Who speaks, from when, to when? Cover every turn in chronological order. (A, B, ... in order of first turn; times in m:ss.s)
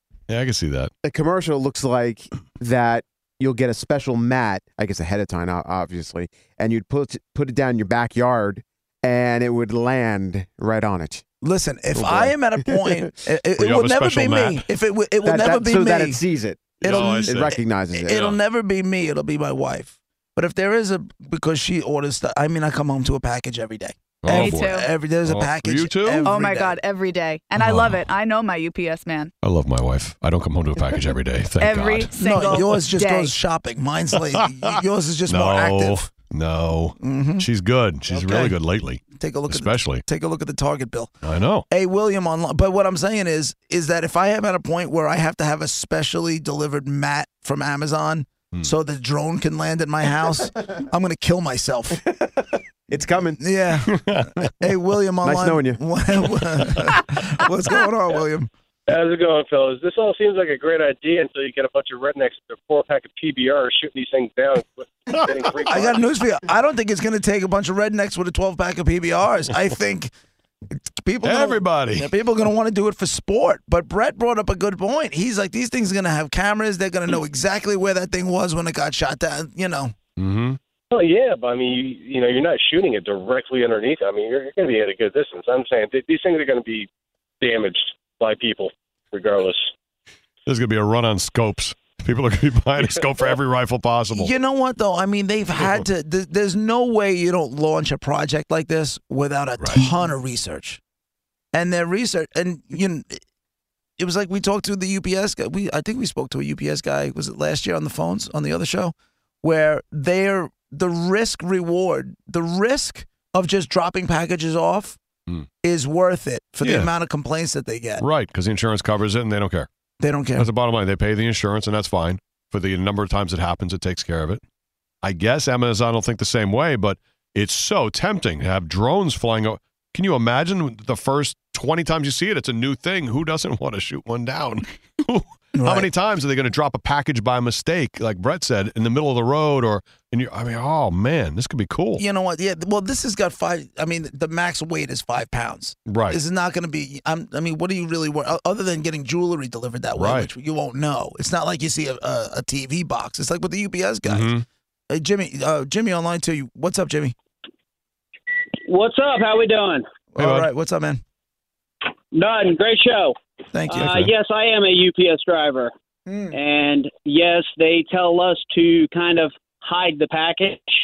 0:00.3-0:00.9 A
0:01.0-0:11.2 B
0:11.4-0:16.2 C
0:11.9-0:13.1 B
0:13.6-0:14.6 A
0:15.2-0:18.4 B
0:16.8-0:17.6 A
0:16.8-0:26.8 C
0:24.2-0:26.3 A
0:24.3-0:24.9 D
0:26.2-0:29.3 D
0:27.6-0:28.0 A
0:29.4-0:32.1 A
0:31.6-0:33.4 D
0:32.1-0:36.1 C
0:35.2-0:40.0 A
0:37.0-0:37.5 C
0:38.1-0:38.5 C
0:39.1-0:41.2 C
0:41.2-0:41.6 A
0:41.7-0:52.0 C
0:52.0-0:53.4 B
0:53.4-0:58.5 C
0:53.8-0:54.5 A
0:55.2-0:55.9 B
0:58.9-1:06.2 E
1:05.1-1:05.8 A
1:05.6-1:10.1 C
1:10.7-1:19.9 C
1:11.2-1:12.1 A
1:20.2-1:20.6 A
1:20.9-1:26.9 E
1:27.4-1:29.7 E
1:30.4-1:34.3 A
1:34.1-1:40.8 C
1:41.5-1:43.2 C
1:44.0-1:55.0 C
1:55.6-1:58.0 C
1:56.6-1:56.9 A
1:58.0-1:59.7 A
2:00.0-2:00.5 C
2:00.4-2:04.4 A
2:05.0-2:22.0 A
2:15.5-2:15.9 C
2:22.0-2:34.4 C
2:25.8-2:26.2 A
2:29.9-2:30.3 A
2:34.0-2:34.4 A
2:34.9-2:37.1 C
2:38.6-2:39.8 F
2:40.1-2:41.0 C
2:40.2-2:40.5 A
2:42.1-2:43.1 F
2:43.5-2:44.0 C
2:43.7-2:45.7 F
2:46.3-2:50.7 F